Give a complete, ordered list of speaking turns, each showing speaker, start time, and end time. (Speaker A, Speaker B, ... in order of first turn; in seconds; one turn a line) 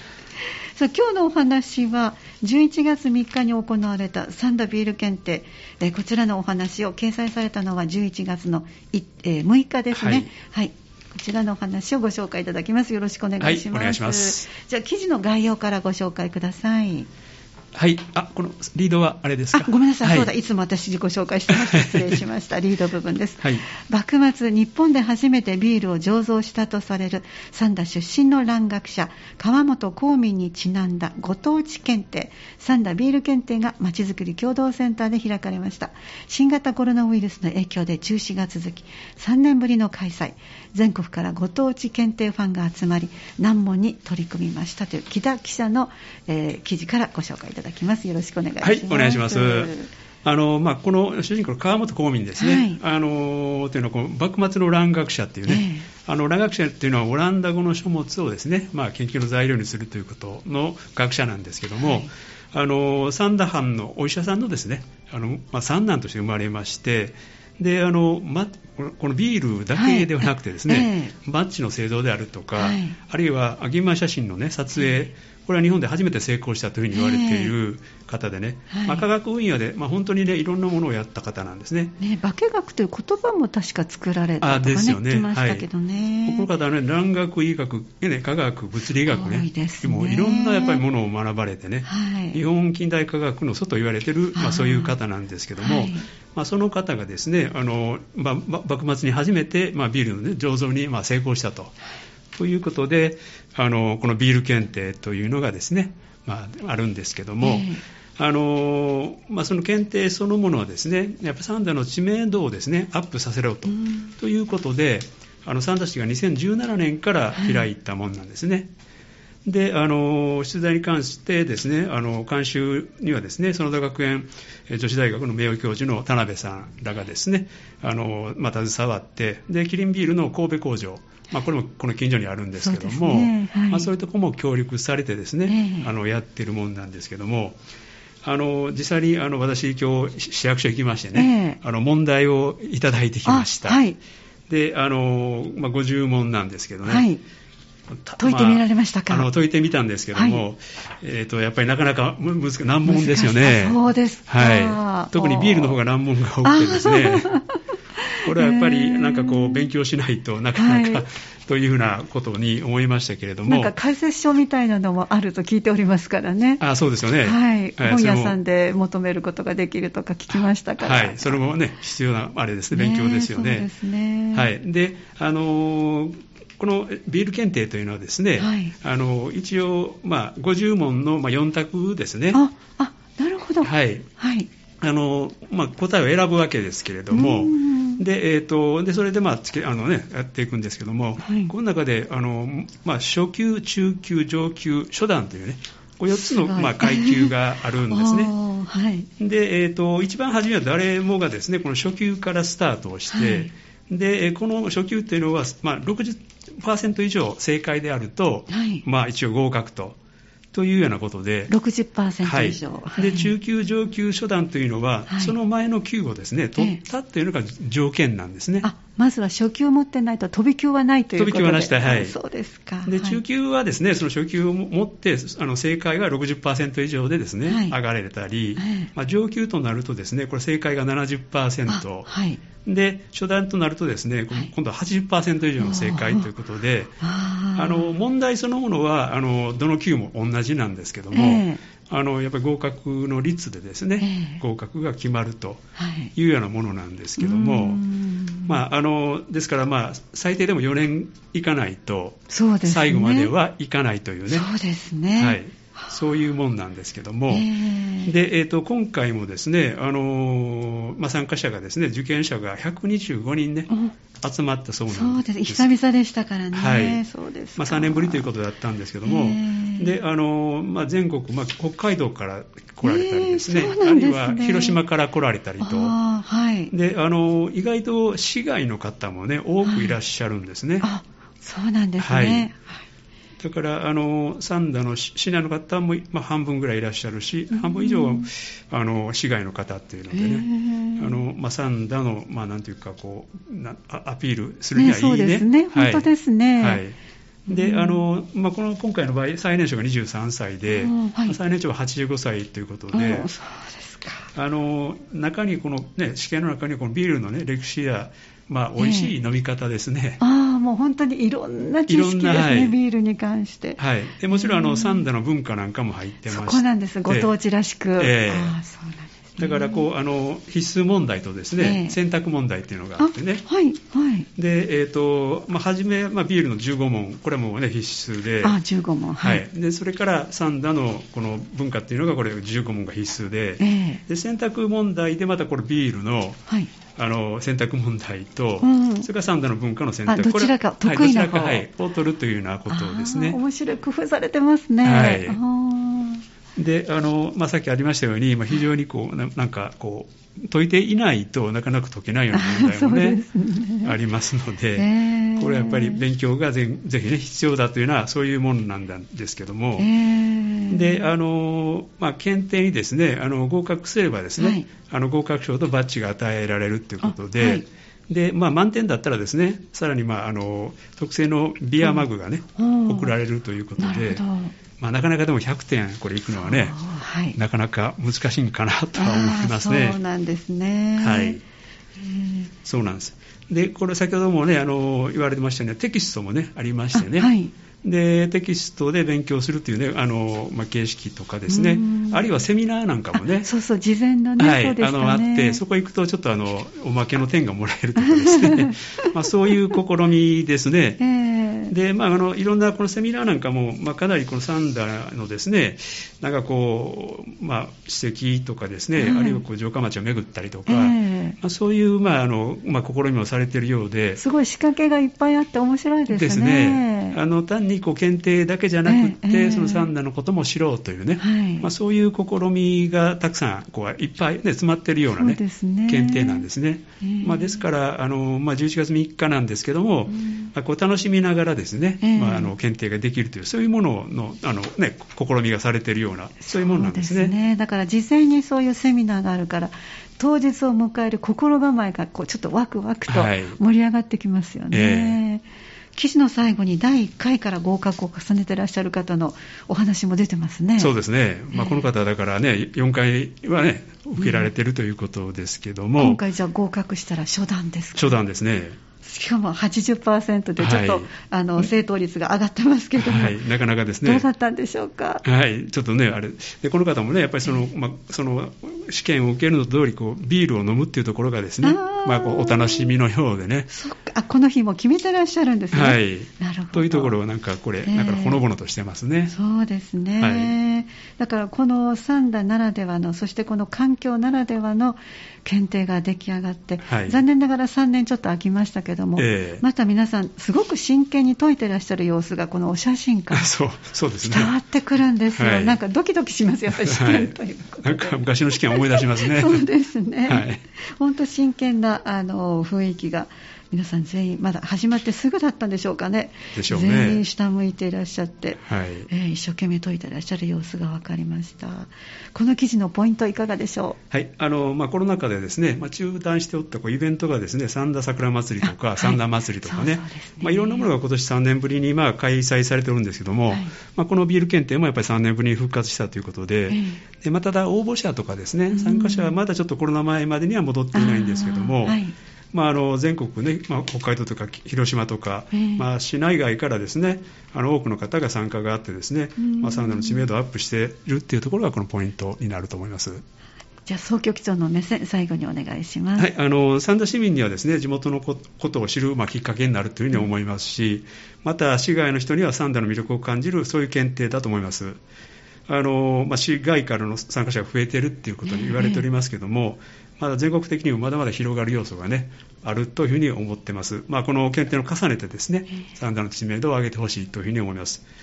Speaker A: 0.4-17.1
Speaker B: 9.9-10.3
Speaker B: 13.4-14.5
Speaker B: 17.7-20.3
Speaker A: 19.5-49.9
Speaker B: 21.5-22.1
Speaker B: 48.6-49.7
Speaker B: 50.2-81.9
Speaker A: 52.4-52.8
Speaker A: 55.5-55.9
Speaker A: 61.8-62.1
Speaker A: 69.8-71.1
Speaker A: 72.5-73.0
Speaker A: 76.9-77.5
Speaker A: 78.7-79.1
Speaker A: 82.0-86.5
Speaker B: 84.4-85.7
Speaker B: 86.2-101.7
Speaker A: 89.0-90.8
Speaker A: 91.8-92.4
Speaker A: 94.3-95.0
Speaker A: 95.6-96.1
Speaker B: 102.3-118.7
Speaker A: 107.4-107.8
Speaker A: 113.7-114.0
Speaker A: 117.3-117.6
Speaker B: 119.4-137.6
Speaker A: 132.6-133.9
Speaker A: 135.5-135.9
Speaker B: 138.2-143.8
Speaker A: 141.1-141.6
Speaker A: 143.2-144.0
Speaker B: 144.5-147.1
Speaker A: 146.8-147.2
Speaker B: 148.0-157.3
Speaker A: 148.2-149.3
Speaker A: 150.1-150.4
Speaker A: 152.8-155.8
Speaker A: 156.4-157.5
Speaker A: 158.0-159.7
Speaker B: 158.2-163.7
Speaker A: 160.6-161.1
Speaker A: 163.5-166.6
Speaker B: 166.6-168.4
Speaker A: 167.2-171.4
Speaker B: 170.3-173.7
Speaker A: 172.7-174.5
Speaker B: 174.3-182.4
Speaker A: 178.4-178.7
Speaker A: 182.3-184.5
Speaker B: 183.6-184.1
Speaker B: 184.8-198.3
Speaker A: 187.1-188.0
Speaker A: 191.2-191.5
Speaker A: 196.1-197.3
Speaker A: 197.9-199.1
Speaker B: 199.2-209.9
Speaker A: 203.1-203.5
Speaker A: 208.5-208.8
Speaker B: 210.5-211.5
Speaker A: 211.5-213.3
Speaker B: 212.2-218.7
Speaker A: 215.1-215.3
Speaker A: 218.6-223.2
Speaker B: 221.2-222.2
Speaker B: 222.8-232.1
Speaker A: 227.4-227.8
Speaker A: 228.6-228.9
Speaker A: 231.7-232.4
Speaker B: 232.6-237.0
Speaker A: 235.6-236.3
Speaker A: 237.0-237.9
Speaker B: 237.5-245.6
Speaker A: 241.1-241.6
Speaker A: 244.0-244.4
Speaker A: 245.8-246.1
Speaker B: 246.2-247.8
Speaker A: 247.2-248.6
Speaker B: 248.4-254.5
Speaker A: 252.3-253.3
Speaker A: 254.3-255.9
Speaker B: 255.2-257.5
Speaker A: 257.3-258.1
Speaker B: 258.0-263.7
Speaker B: 264.2-265.7
Speaker A: 264.9-268.3
Speaker B: 266.5-267.0
Speaker B: 267.6-275.9
Speaker A: 269.0-269.9
Speaker A: 272.8-274.8
Speaker A: 275.6-276.7
Speaker B: 276.7-280.9
Speaker A: 279.6-280.0
Speaker A: 280.8-282.8
Speaker B: 282.0-282.5
Speaker B: 283.4-296.9
Speaker A: 287.5-288.3
Speaker A: 290.1-291.2
Speaker A: 294.7-296.8
Speaker A: 297.5-298.0
Speaker B: 297.5-303.3
Speaker A: 300.7-301.4
Speaker A: 302.9-304.3
Speaker B: 304.3-310.2
Speaker A: 308.8-309.1
Speaker A: 310.2-315.0
Speaker B: 311.9-312.7
Speaker B: 313.8-317.3
Speaker A: 316.3-319.9
Speaker B: 318.0-318.6
Speaker B: 319.4-323.4
Speaker A: 321.6-322.0
Speaker A: 323.0-324.3
Speaker B: 324.4-328.6
Speaker A: 328.4-329.4
Speaker B: 329.2-336.4
Speaker A: 333.6-334.0
Speaker B: 336.9-343.4
Speaker A: 338.6-339.1
Speaker A: 340.1-341.6
Speaker A: 342.7-346.2
Speaker B: 344.8-345.4
Speaker B: 346.6-353.2
Speaker A: 352.3-353.9
Speaker B: 353.8-359.9
Speaker A: 354.8-356.0
Speaker A: 359.8-361.1
Speaker B: 360.7-374.2
Speaker A: 364.4-364.7
Speaker A: 367.0-367.6
Speaker A: 372.6-373.1
Speaker A: 373.8-374.5
Speaker B: 374.8-376.8
Speaker A: 376.3-377.4
Speaker B: 377.3-380.0
Speaker A: 379.0-381.4
Speaker B: 381.0-381.4
Speaker A: 382.0-382.5
Speaker B: 382.6-387.3
Speaker A: 386.9-387.5
Speaker B: 387.8-393.5
Speaker A: 391.5-392.3
Speaker A: 393.2-395.6
Speaker B: 394.4-401.0
Speaker A: 398.0-399.1
Speaker A: 401.0-401.7
Speaker B: 401.7-414.2
Speaker A: 409.0-409.4
Speaker A: 410.6-411.4
Speaker A: 414.2-417.2
Speaker B: 416.1-437.3
Speaker A: 418.9-419.9
Speaker A: 421.2-421.7
Speaker A: 425.1-426.4
Speaker A: 427.0-427.6
Speaker A: 430.1-430.5
Speaker A: 432.0-432.5
Speaker A: 436.4-450.9
Speaker B: 443.1-443.6
Speaker B: 444.7-445.2
Speaker B: 450.8-456.2
Speaker A: 451.5-451.9
Speaker A: 454.2-454.5
Speaker A: 456.0-458.2
Speaker B: 457.9-458.8
Speaker A: 459.0-463.4
Speaker B: 460.6-461.1
Speaker B: 463.0-464.2
Speaker A: 464.0-465.2
Speaker B: 465.2-473.7
Speaker A: 471.6-472.9
Speaker A: 473.7-477.1
Speaker B: 475.7-479.3
Speaker A: 477.8-478.4
Speaker A: 479.3-493.5
Speaker B: 480.2-480.5
Speaker B: 486.8-487.2
Speaker B: 489.2-489.6
Speaker B: 493.3-494.5
Speaker A: 494.2-514.0
Speaker B: 495.3-495.8
Speaker B: 496.8-499.6
Speaker B: 500.2-500.6
Speaker B: 506.5-507.2
Speaker B: 508.6-509.1
Speaker B: 514.1-532.0
Speaker A: 518.6-520.9
Speaker A: 523.5-523.8
Speaker A: 526.7-527.0
Speaker A: 528.7-529.3
Speaker A: 530.9-532.1
Speaker B: 532.5-543.2
Speaker A: 535.5-535.8
Speaker A: 539.4-540.2
Speaker A: 543.9-546.3
Speaker B: 546.2-555.0
Speaker B: 555.7-568.0
Speaker A: 558.5-559.0